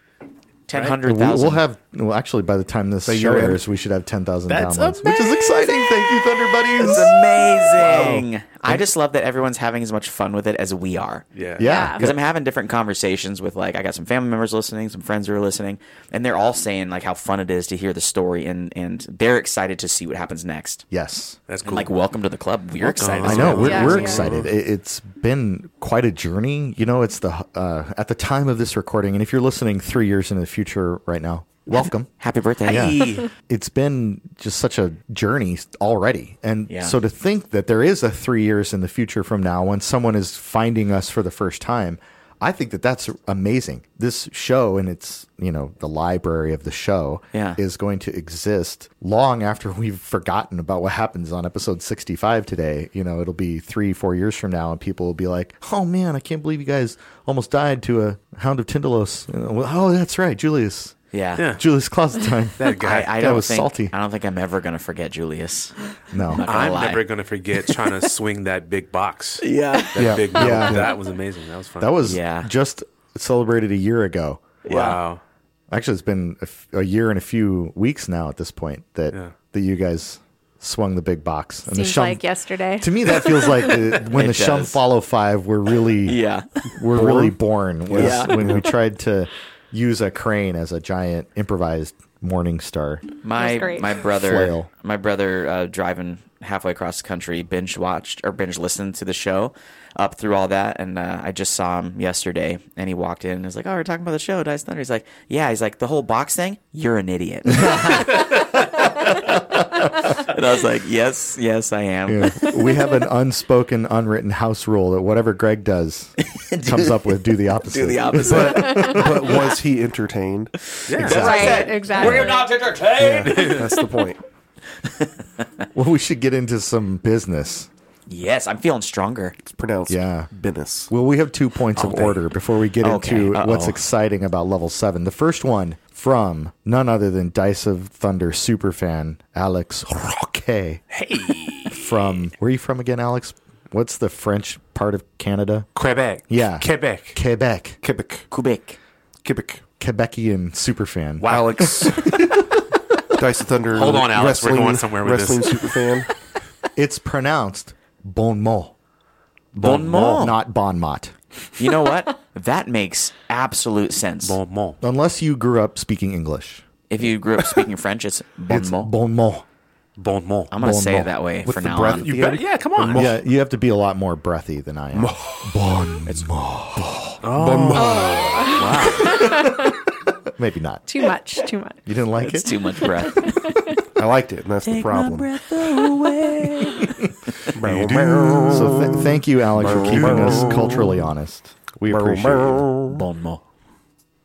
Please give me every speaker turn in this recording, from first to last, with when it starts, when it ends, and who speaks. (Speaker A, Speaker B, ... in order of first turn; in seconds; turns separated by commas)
Speaker A: 0.7-1.6, Speaker B: 1.0-7.1, Speaker C: 3.0-3.6, Speaker D: 4.5-5.3, Speaker A: 6.8-11.2, Speaker D: 7.8-8.2, Speaker B: 7.8-8.8, Speaker D: 11.3-11.6, Speaker B: 11.6-12.2, Speaker E: 11.6-12.1, Speaker A: 11.8-20.8, Speaker B: 20.9-21.4, Speaker D: 21.5-21.9, Speaker A: 21.6-24.2, Speaker B: 22.8-32.1, Speaker D: 22.9-24.4, Speaker E: 23.6-24.2, Speaker A: 32.2-33.0, Speaker B: 32.6-61.0, Speaker D: 32.7-33.3, Speaker A: 36.7-37.0, Speaker A: 47.3-47.6, Speaker A: 61.1-61.4, Speaker D: 61.4-61.6, Speaker B: 61.5-63.9, Speaker D: 62.6-63.1, Speaker A: 62.8-65.7, Speaker B: 66.1-66.4, Speaker A: 66.4-67.0, Speaker D: 66.4-71.9, Speaker A: 69.4-70.0, Speaker C: 70.0-70.5, Speaker B: 70.3-71.0, Speaker B: 71.8-74.4, Speaker A: 72.0-72.5, Speaker A: 74.6-75.0, Speaker D: 74.7-75.2, Speaker B: 75.7-82.2, Speaker E: 81.7-83.7, Speaker B: 82.8-86.2, Speaker A: 84.0-84.8, Speaker A: 86.0-86.4, Speaker B: 86.8-93.0, Speaker C: 86.9-87.4, Speaker C: 87.9-88.7, Speaker A: 87.9-88.4, Speaker A: 93.2-108.2, Speaker E: 93.3-93.9, Speaker B: 94.0-94.7, Speaker B: 107.6-108.2, Speaker A: 110.1-112.4, Speaker B: 112.1-119.4, Speaker A: 116.3-117.0, Speaker A: 117.7-118.8, Speaker C: 118.2-120.5, Speaker D: 120.9-121.6, Speaker A: 120.9-123.3, Speaker E: 121.1-122.5, Speaker B: 123.0-123.5, Speaker D: 123.1-123.7, Speaker C: 123.4-124.2, Speaker B: 125.7-127.7, Speaker A: 128.1-129.3, Speaker C: 129.4-130.9, Speaker B: 129.9-130.3, Speaker B: 130.9-140.8, Speaker A: 132.8-133.8, Speaker D: 140.9-142.0, Speaker B: 141.7-145.7, Speaker D: 145.7-147.2, Speaker B: 146.3-147.8, Speaker C: 147.8-148.2, Speaker A: 148.3-148.8, Speaker C: 149.2-149.6, Speaker B: 149.8-152.6, Speaker D: 151.2-151.7, Speaker C: 151.2-152.2, Speaker C: 153.1-156.1, Speaker D: 153.7-155.9, Speaker B: 156.7-158.7, Speaker B: 159.5-161.1, Speaker A: 159.6-160.4, Speaker A: 161.6-164.4, Speaker D: 164.2-164.8, Speaker B: 164.8-166.6, Speaker A: 166.9-168.9, Speaker B: 168.5-169.4, Speaker D: 170.0-170.5, Speaker A: 170.5-172.1, Speaker B: 170.5-171.1, Speaker C: 171.4-173.2, Speaker D: 171.9-173.1, Speaker B: 172.9-177.2, Speaker C: 174.9-175.5, Speaker D: 177.2-179.2, Speaker C: 177.3-178.9, Speaker E: 177.7-179.7, Speaker B: 179.0-179.8, Speaker B: 180.3-180.8, Speaker E: 180.9-181.8, Speaker B: 181.8-182.5, Speaker A: 182.2-183.3, Speaker E: 183.1-183.6, Speaker B: 183.2-183.4, Speaker C: 183.9-185.3, Speaker A: 184.7-186.9, Speaker C: 187.5-190.9, Speaker D: 187.6-188.8, Speaker B: 188.5-192.7, Speaker D: 189.7-190.8, Speaker C: 191.9-193.0, Speaker D: 192.9-193.4